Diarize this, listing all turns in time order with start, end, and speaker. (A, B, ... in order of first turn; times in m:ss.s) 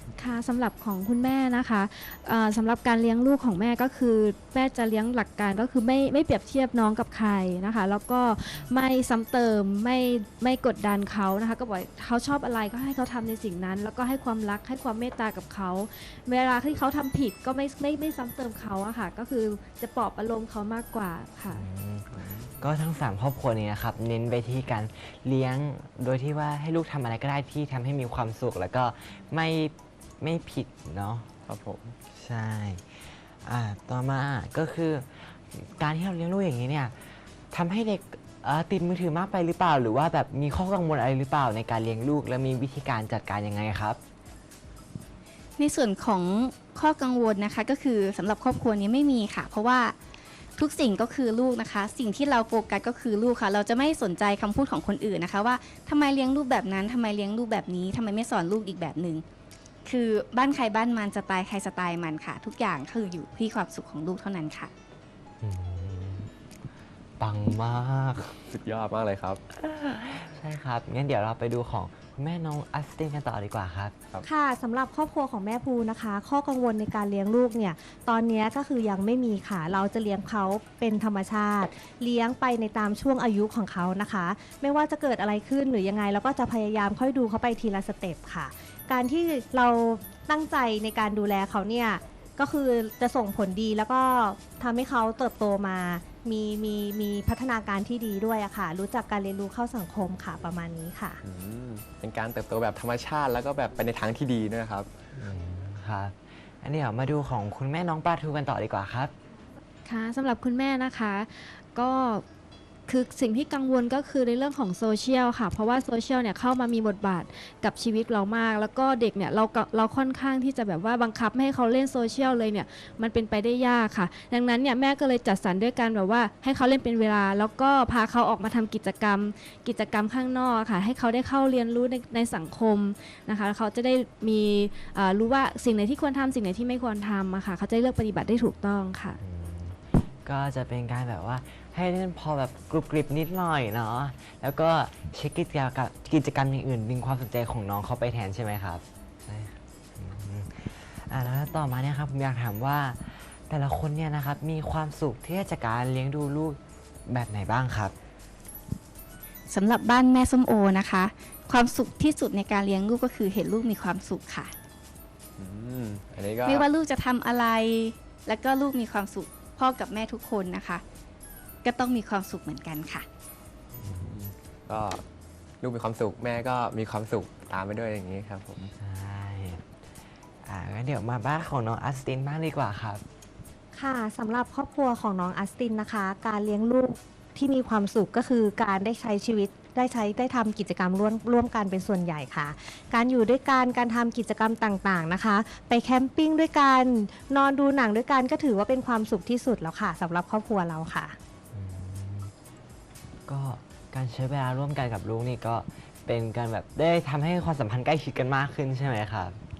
0:00.2-0:21.7 A
0:21.5-0:31.3 B
0:31.5-0:32.0 C
0:32.1-0:44.0 B
0:45.6-0:50.0 D
0:50.6-0:59.2 D
0:59.8-1:04.7 D
1:05.4-1:06.3 B
1:07.2-1:08.4 B
1:08.5-1:09.4 C
1:09.5-1:14.0 B
1:14.2-1:41.2 E
1:41.2-1:44.9 C
1:45.2-1:49.1 B
1:49.8-1:52.2 A
1:52.9-2:19.2 A
2:19.2-2:38.0 B
2:39.5-2:44.5 D
2:45.4-2:46.7 C
2:46.4-2:50.8 D
2:51.6-2:53.1 D
2:53.8-2:54.1 B
2:53.9-2:55.0 C
2:55.6-2:58.7 C
2:58.8-2:59.6 B
3:00.4-3:03.0 B
3:03.7-3:21.2 E
3:21.5-3:22.3 B
3:23.3-3:29.4 B